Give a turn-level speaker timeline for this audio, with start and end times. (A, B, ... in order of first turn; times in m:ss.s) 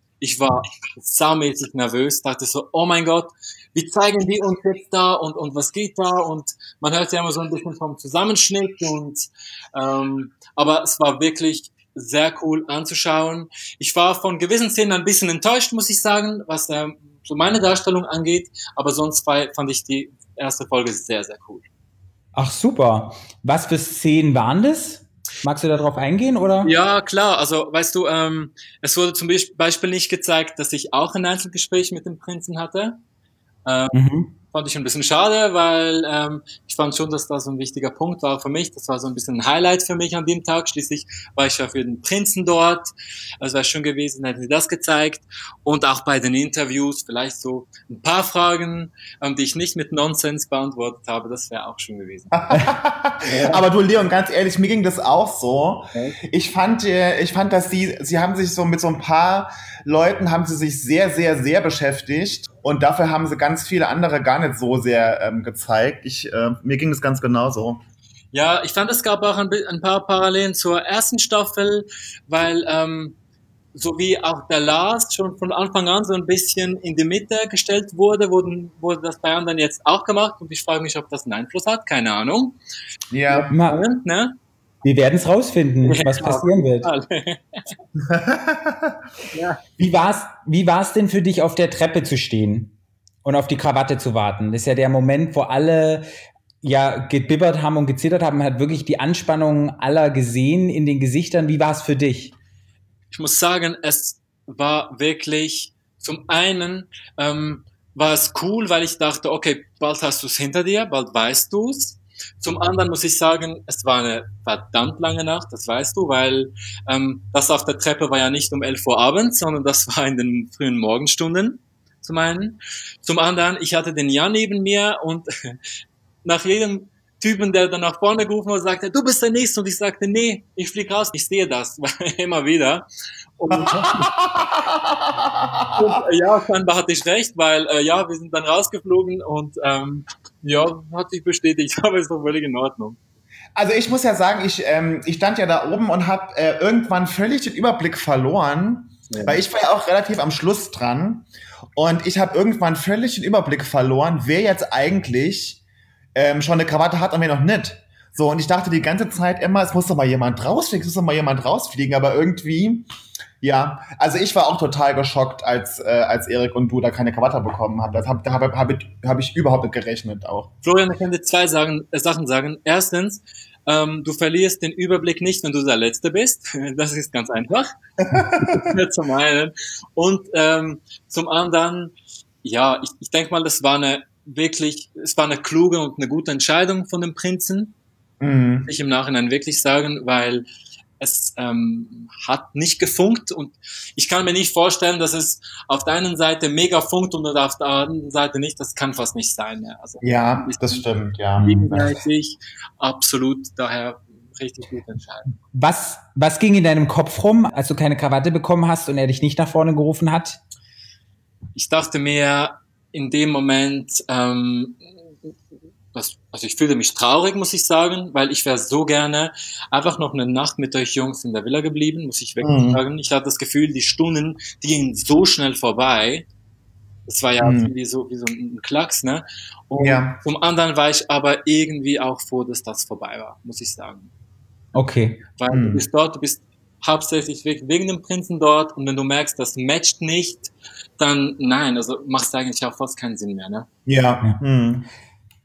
0:00.2-0:21.7 A
0:22.3-0:26.7 B
0:26.6-0:33.0 A
0:33.6-0:34.0 A
0:33.9-0:34.3 B
0:34.5-0:42.9 A
0:43.4-0:52.3 A
0:52.3-1:07.8 C
0:53.2-0:53.6 A
1:08.3-1:13.2 A
1:13.7-1:22.6 A
1:23.1-1:23.5 C
1:23.3-1:24.4 A
1:23.5-1:23.8 B
1:24.8-1:26.9 B
1:25.8-1:27.6 A
1:28.0-1:29.0 C
1:29.3-1:29.6 A
1:29.8-1:32.7 B
1:33.2-1:36.1 B
1:36.6-1:42.3 B
1:43.1-2:05.5 A
2:06.2-2:14.1 A
2:13.5-2:16.0 C
2:15.7-2:23.0 A
2:23.5-2:35.6 C
2:29.1-2:29.4 A
2:36.1-2:42.9 C
2:43.4-2:50.5 C
2:50.6-2:57.7 A
2:58.0-2:58.6 C
2:58.4-3:07.7 A
3:08.2-3:08.7 C
3:08.6-3:10.4 A
3:11.0-3:20.8 A
3:20.0-3:22.0 C
3:21.4-3:25.3 A
3:25.5-3:30.4 B
3:31.5-3:34.9 A
3:35.9-3:46.3 A
3:42.4-3:42.8 C
3:47.1-3:54.1 A
3:47.4-3:47.7 C
3:49.7-3:50.2 C
3:54.7-3:55.2 B
3:55.4-4:03.7 A
3:55.5-3:55.8 C
4:03.8-4:04.9 C